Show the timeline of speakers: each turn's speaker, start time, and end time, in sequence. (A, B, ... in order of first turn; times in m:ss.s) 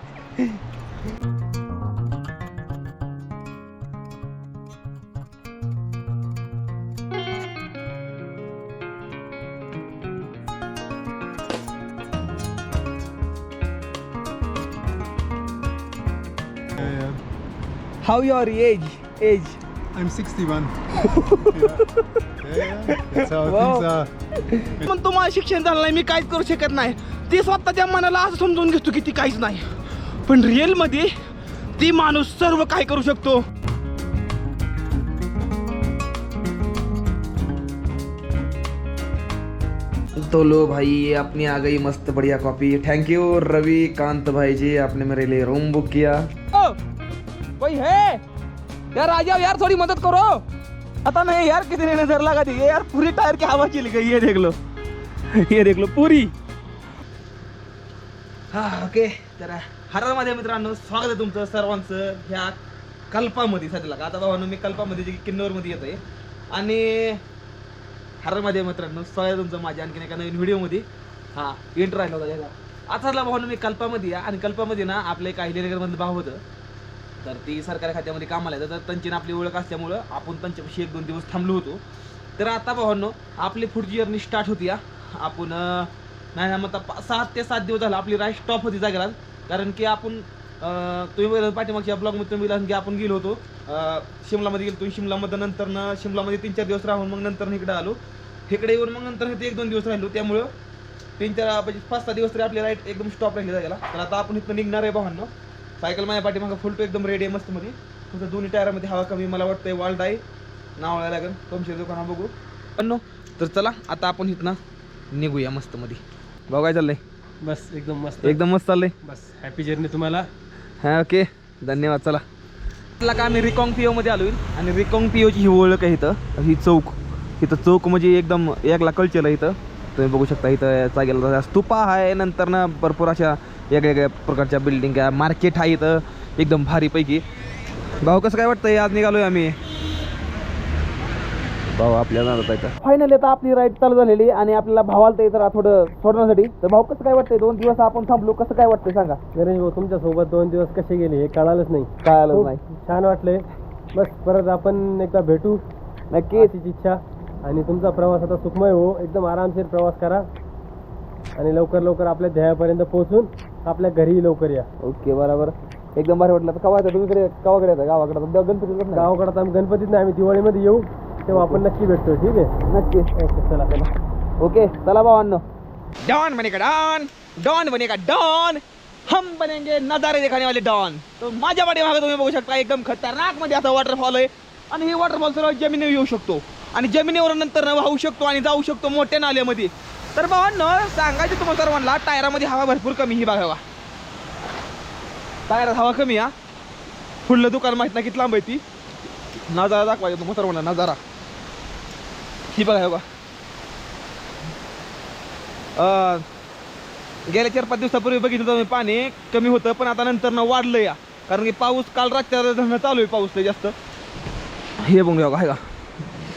0:16.7-0:17.2 A
0:18.0-0:19.6 B
0:19.9-0:21.9 A
0:21.0-0:22.0 B
0:22.4-0:24.1 A
0:22.9-0:31.1 B
0:31.8-0:33.4 B
0:40.2-0:46.8 B
0:47.6-0:48.2 B
0:48.9-0:50.4 B
0:51.0-0:54.6 B
0:55.3-0:56.3 B
0:58.5-1:02.6 B
1:03.1-1:06.0 B
1:06.5-1:07.2 B
1:08.2-1:16.4 B
1:17.2-1:21.8 B
1:22.4-1:40.5 B
1:41.2-1:50.2 B
1:50.8-1:54.6 B
1:55.1-1:57.0 B
1:57.4-1:58.4 C
1:58.2-1:58.9 B
1:59.0-2:00.3 C
2:00.8-2:02.2 B
2:03.0-2:17.2 B
2:18.0-2:19.6 B
2:21.7-2:29.2 B
2:29.4-2:35.6 C
2:32.0-2:32.6 B
2:36.1-2:36.5 B
2:36.3-2:40.3 C
2:41.4-2:44.7 C
2:44.8-2:49.1 B
2:48.9-2:52.5 C
2:51.3-2:51.6 B
2:52.7-2:53.1 B
2:53.2-2:53.9 C
2:54.4-2:55.4 B
2:56.0-3:13.6 B
3:15.5-3:16.3 B
3:17.2-3:18.6 B
3:19.5-3:21.0 B
3:22.5-3:23.0 B
3:25.8-3:26.2 B
3:27.3-3:33.8 B
3:34.8-3:35.6 B